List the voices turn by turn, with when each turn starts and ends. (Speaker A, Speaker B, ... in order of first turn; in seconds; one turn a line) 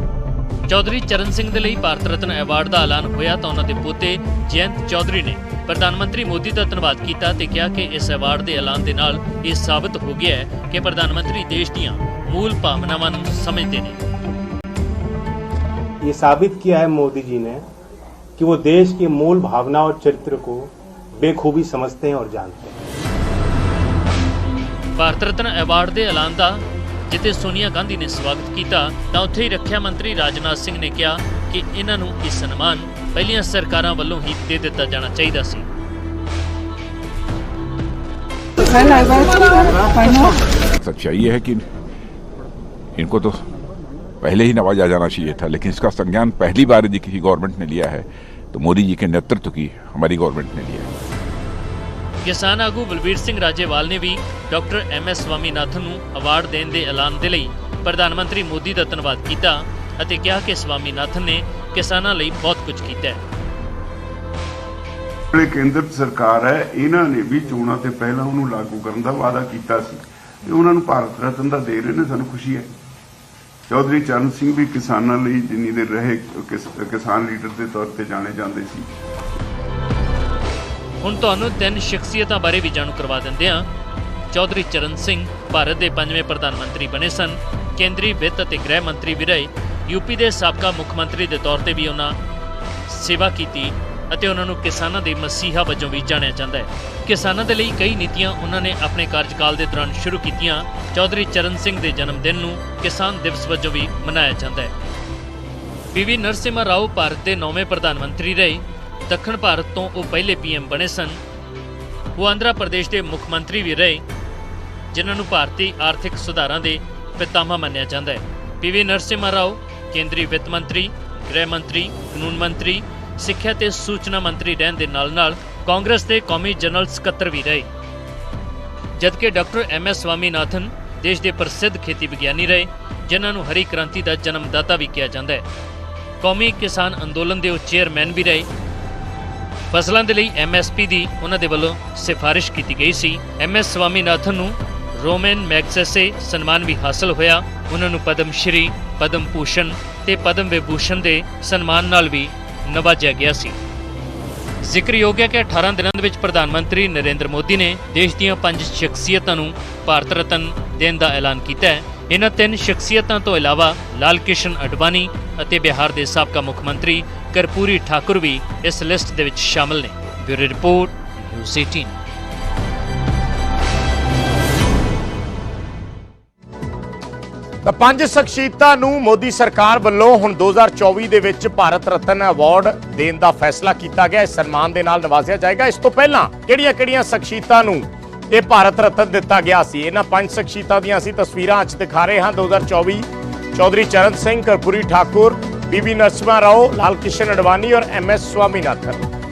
Speaker A: 0.7-14.0
Speaker B: 16.1-17.6
Speaker B: 18.4-20.7
Speaker B: 21.2-22.7
Speaker A: 25.0-35.6
Speaker C: 40.8-41.6
Speaker C: 43.0-43.4
Speaker C: 44.2-50.9
Speaker A: 52.2-63.2
Speaker D: 65.3-72.7
Speaker D: 73.7-78.9
Speaker A: 81.0-83.7
Speaker A: 84.3-92.1
Speaker A: 92.9-104.7
Speaker A: 105.9-111.2
Speaker A: 112.2-114.0
Speaker A: 114.9-127.7
Speaker A: 129.0-135.4
Speaker A: 136.2-138.5
Speaker A: 139.7-153.6
Speaker A: 154.6-171.9
Speaker E: 177.6-199.1